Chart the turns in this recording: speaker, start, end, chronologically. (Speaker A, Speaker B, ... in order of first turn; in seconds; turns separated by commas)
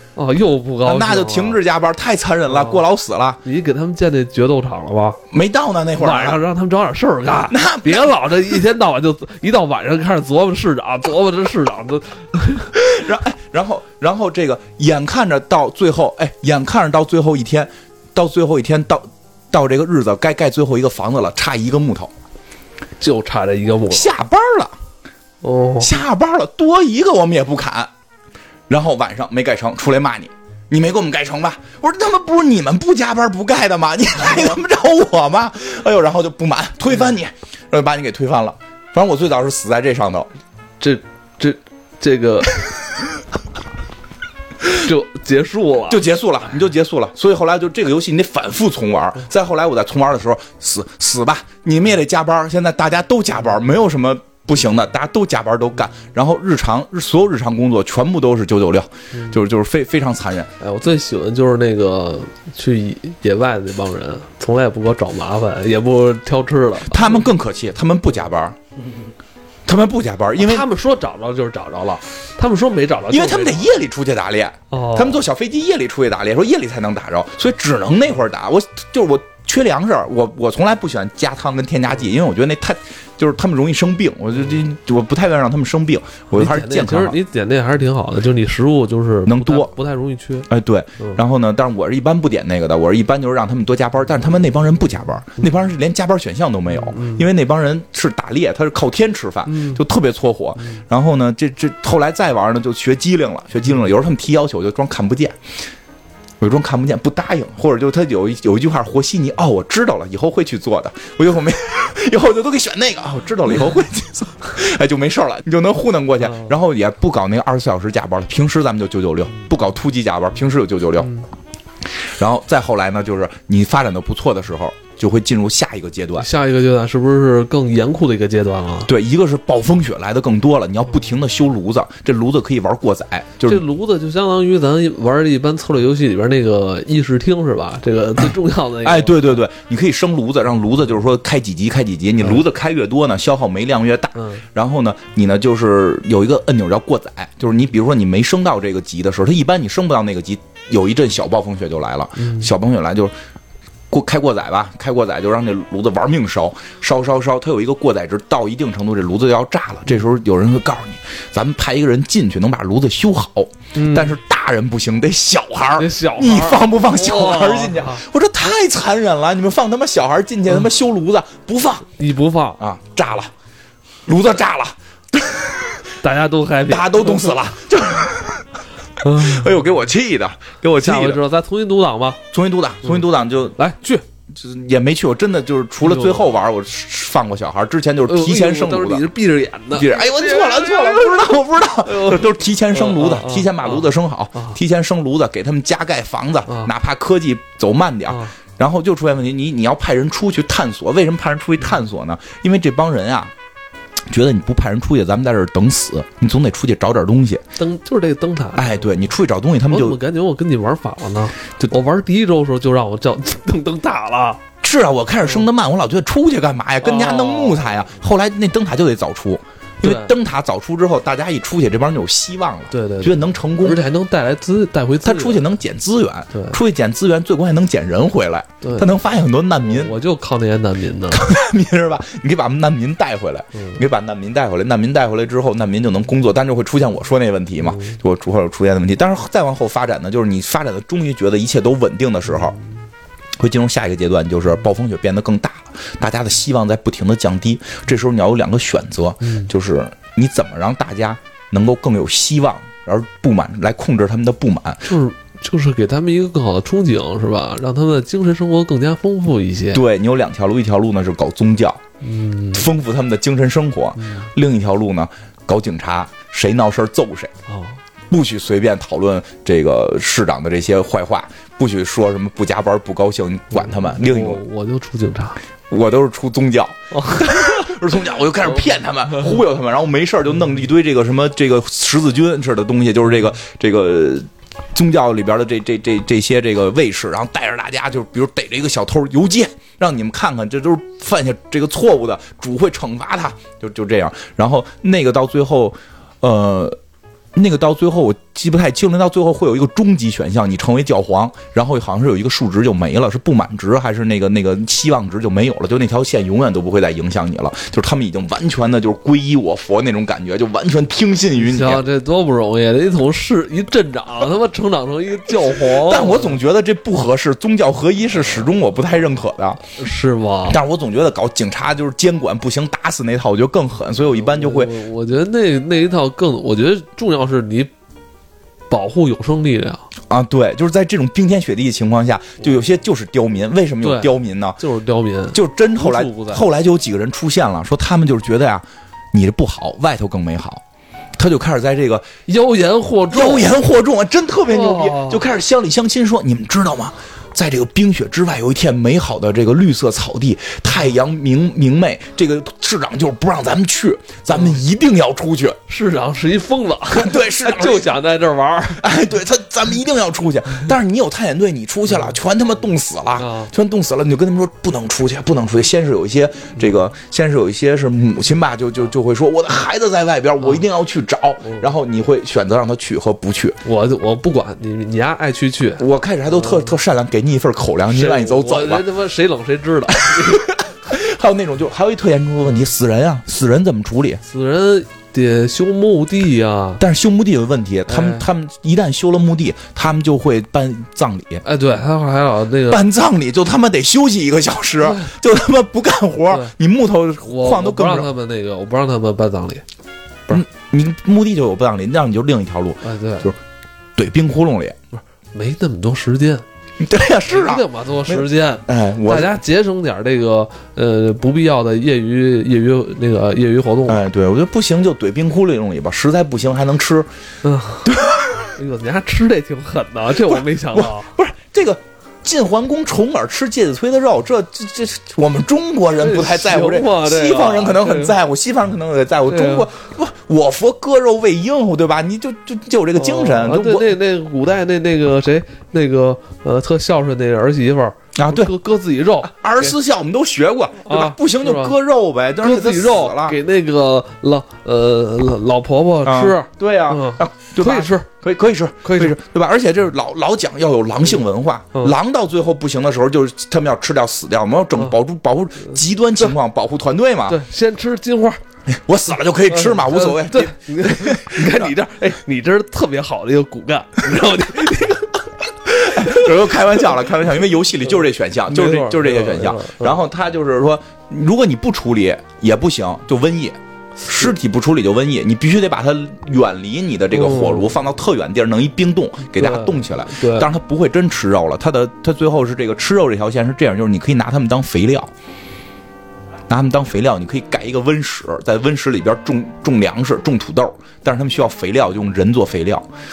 Speaker A: 0.2-1.6, Speaker B: 0.8-3.4, Speaker A: 2.5-2.8, Speaker A: 3.4-5.2, Speaker B: 5.3-6.4, Speaker A: 6.0-12.7, Speaker B: 7.5-8.6, Speaker B: 12.7-22.1, Speaker A: 23.0-24.1, Speaker B: 23.9-24.7, Speaker A: 25.4-25.9, Speaker B: 25.8-27.9, Speaker B: 28.7-40.3, Speaker A: 40.8-42.6, Speaker A: 44.7-46.1, Speaker B: 45.9-60.5, Speaker A: 60.6-67.3, Speaker B: 66.9-68.6, Speaker B: 69.7-70.7, Speaker A: 70.4-73.7, Speaker B: 73.1-87.2, Speaker A: 74.7-75.2, Speaker A: 86.3-91.2, Speaker B: 89.3-89.7, Speaker B: 90.5-105.4, Speaker A: 96.7-97.3, Speaker A: 99.5-99.8, Speaker B: 106.4-121.1, Speaker A: 116.2-116.5, Speaker A: 121.0-121.3, Speaker B: 121.8-126.3, Speaker A: 126.2-128.9, Speaker B: 128.9-133.6, Speaker A: 133.4-139.4, Speaker B: 138.8-153.1, Speaker A: 144.2-144.4, Speaker A: 152.2-152.5, Speaker B: 153.9-171.9, Speaker A: 163.8-164.2, Speaker A: 165.8-168.1, Speaker A: 172.0-172.6, Speaker B: 172.6-173.3, Speaker B: 174.1-175.8, Speaker A: 176.0-177.4, Speaker B: 176.7-178.5, Speaker A: 179.0-179.5, Speaker B: 179.0-181.2, Speaker A: 180.8-182.2, Speaker B: 182.3-183.6, Speaker A: 183.6-184.0, Speaker B: 184.3-189.1, Speaker A: 185.8-186.2, Speaker A: 188.1-194.6, Speaker B: 189.7-203.3, Speaker A: 196.5-196.7, Speaker A: 198.1-198.3, Speaker B: 204.1-207.4, Speaker A: 207.6-208.9, Speaker B: 208.6-210.0, Speaker A: 209.7-214.4, Speaker B: 214.6-223.8, Speaker A: 216.8-217.8, Speaker A: 219.8-220.1, Speaker A: 222.7-225.4, Speaker B: 225.0-230.0, Speaker A: 226.3-226.6, Speaker A: 228.6-228.9, Speaker A: 229.6-231.3, Speaker B: 231.1-242.6, Speaker A: 233.6-233.8, Speaker A: 237.6-238.0, Speaker B: 243.4-254.9, Speaker A: 249.2-249.5, Speaker A: 254.9-259.8, Speaker B: 259.7-261.8, Speaker A: 262.0-262.7, Speaker B: 262.5-267.3, Speaker A: 264.0-264.3, Speaker A: 267.5-267.8, Speaker B: 268.1-274.4, Speaker A: 273.6-275.4, Speaker B: 275.7-296.8, Speaker A: 276.9-277.7, Speaker B: 297.4-311.8, Speaker A: 311.4-316.4, Speaker B: 315.4-319.6, Speaker A: 318.2-318.5, Speaker A: 319.8-320.6, Speaker B: 320.5-324.7, Speaker A: 324.1-327.7, Speaker A: 328.7-329.9, Speaker B: 330.1-334.6, Speaker A: 333.8-336.4, Speaker B: 335.3-340.6, Speaker B: 341.2-342.1, Speaker A: 342.3-343.5, Speaker B: 343.1-355.6, Speaker A: 344.5-345.2, Speaker A: 355.7-358.9, Speaker B: 356.9-357.9, Speaker B: 358.8-373.6, Speaker A: 363.2-363.5, Speaker A: 373.6-376.7, Speaker B: 375.8-378.9, Speaker A: 377.9-380.5, Speaker B: 379.9-384.2, Speaker A: 384.2-386.8, Speaker B: 386.8-391.4, Speaker A: 387.9-388.2, Speaker A: 391.4-392.8, Speaker B: 392.7-398.1, Speaker A: 394.8-395.1, Speaker A: 397.2-399.6, Speaker B: 400.3-403.4, Speaker A: 402.8-403.3, Speaker B: 403.9-404.8, Speaker A: 404.9-406.4, Speaker B: 406.8-409.3, Speaker A: 407.3-414.0, Speaker B: 413.9-417.1, Speaker A: 417.4-417.9, Speaker B: 417.9-418.5, Speaker A: 418.5-421.1, Speaker B: 420.2-434.0, Speaker A: 426.0-428.1, Speaker A: 429.3-429.7, Speaker A: 433.0-439.8, Speaker B: 438.2-438.5, Speaker B: 439.2-443.4, Speaker A: 440.9-441.8, Speaker A: 442.4-448.1, Speaker B: 446.1-457.4, Speaker A: 448.8-449.1, Speaker A: 457.3-458.4, Speaker B: 458.7-461.7, Speaker A: 459.5-465.3, Speaker B: 465.8-485.1, Speaker A: 465.9-466.3, Speaker A: 468.5-470.0, Speaker A: 477.1-477.7, Speaker A: 479.4-480.5, Speaker B: 486.5-492.9